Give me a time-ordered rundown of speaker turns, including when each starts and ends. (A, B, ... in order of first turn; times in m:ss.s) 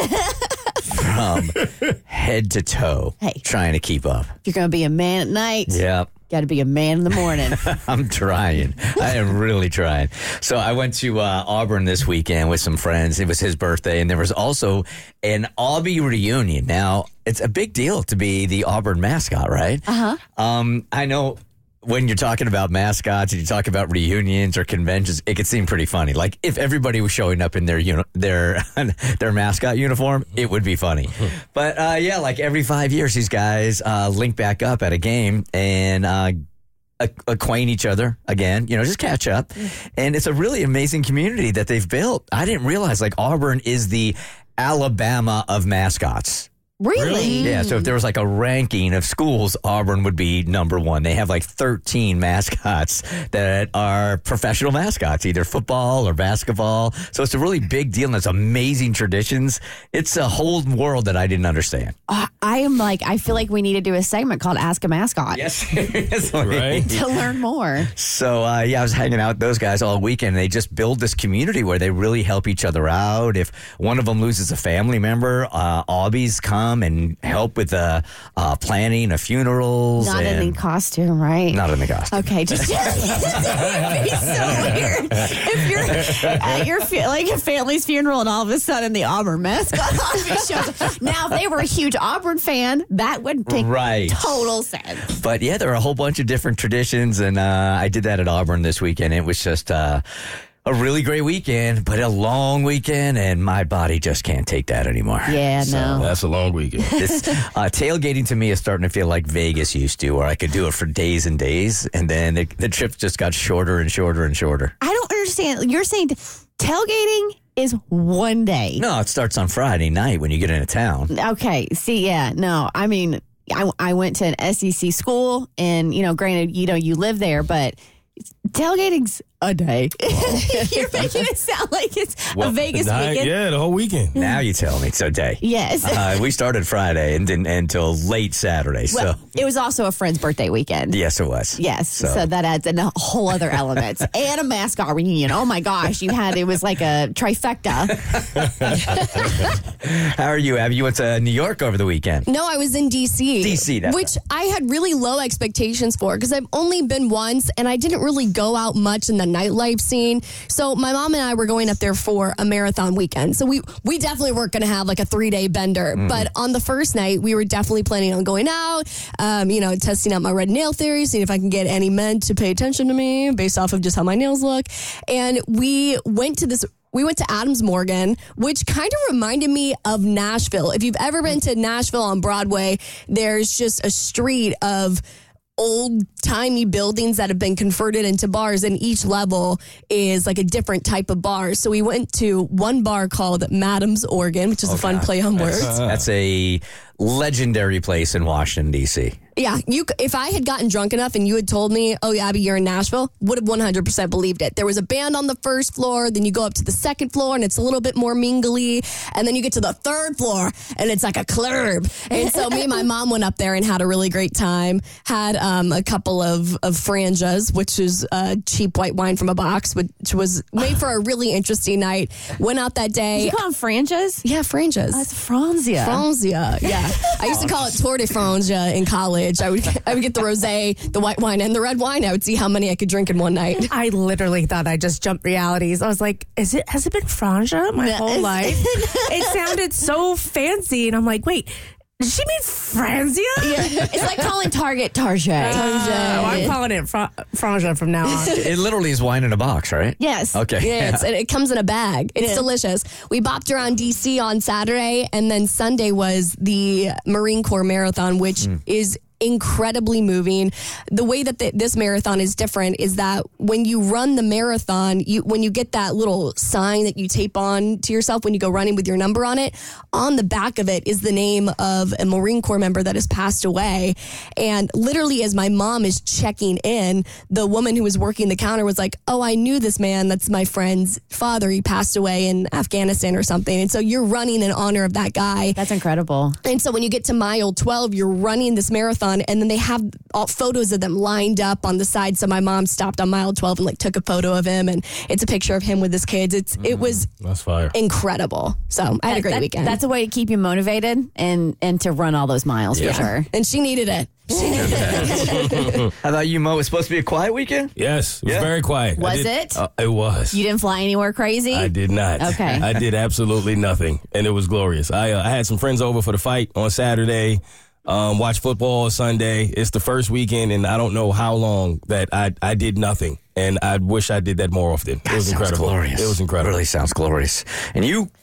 0:00.9-0:04.3 A
0:04.4-0:07.7 B
0:05.7-0:06.1 A
0:07.5-0:19.8 A
0:19.9-0:20.2 B
0:20.4-0:36.3 A
0:37.0-0:46.5 A
0:46.8-0:47.9 B
0:47.0-0:47.4 C
0:47.3-1:01.9 A
1:02.1-1:05.4 B
1:05.3-1:07.2 A
1:06.4-1:06.9 C
1:06.9-1:07.9 B
1:07.8-1:20.6 A
1:20.0-1:35.1 B
1:21.5-1:22.2 A
1:33.5-1:34.2 A
1:35.1-1:40.0 A
1:40.7-1:46.1 A
1:45.3-1:46.1 B
1:46.0-1:46.9 C
1:46.8-1:47.1 B
1:47.0-1:54.7 A
1:54.8-1:58.8 B
1:58.8-2:01.1 A
2:01.1-2:07.8 B
2:08.5-2:13.3 B
2:10.2-2:10.6 A
2:12.4-2:14.2 C
2:14.2-2:14.4 B
2:14.2-2:19.2 A
2:15.4-2:16.3 B
2:18.9-2:21.0 B
2:20.9-2:22.3 A
2:21.6-2:29.5 B
2:28.5-2:28.9 A
2:29.5-2:32.3 A
2:32.3-3:05.0 D
2:33.4-2:34.1 A
2:46.0-2:46.3 A
3:05.6-3:15.8 D
3:14.6-3:19.2 A
3:15.5-3:15.9 C
3:19.4-3:43.4 D
3:43.1-3:44.2 B
3:44.2-3:45.1 D
3:44.9-3:46.1 B
3:45.8-3:53.7 D
3:47.0-3:47.4 B
3:53.7-4:04.1 E
3:57.8-3:59.4 B
4:03.4-4:06.6 B
4:05.4-4:08.5 E
4:08.3-4:11.1 A
4:10.0-4:10.4 B
4:10.6-4:45.6 D
4:12.2-4:12.5 B
4:45.6-4:46.4 B
4:46.4-4:57.1 D
4:56.6-4:57.0 A
4:57.2-4:57.8 C
4:57.7-4:59.8 D
4:59.1-5:03.3 B
5:02.7-5:03.1 A
5:02.9-5:05.9 D
5:04.5-5:05.1 A
5:06.0-5:07.7 A
5:07.8-5:10.4 C
5:08.2-5:08.5 A
5:09.0-5:09.6 B
5:10.3-5:12.7 B
5:11.5-5:26.6 C
5:25.1-5:28.1 A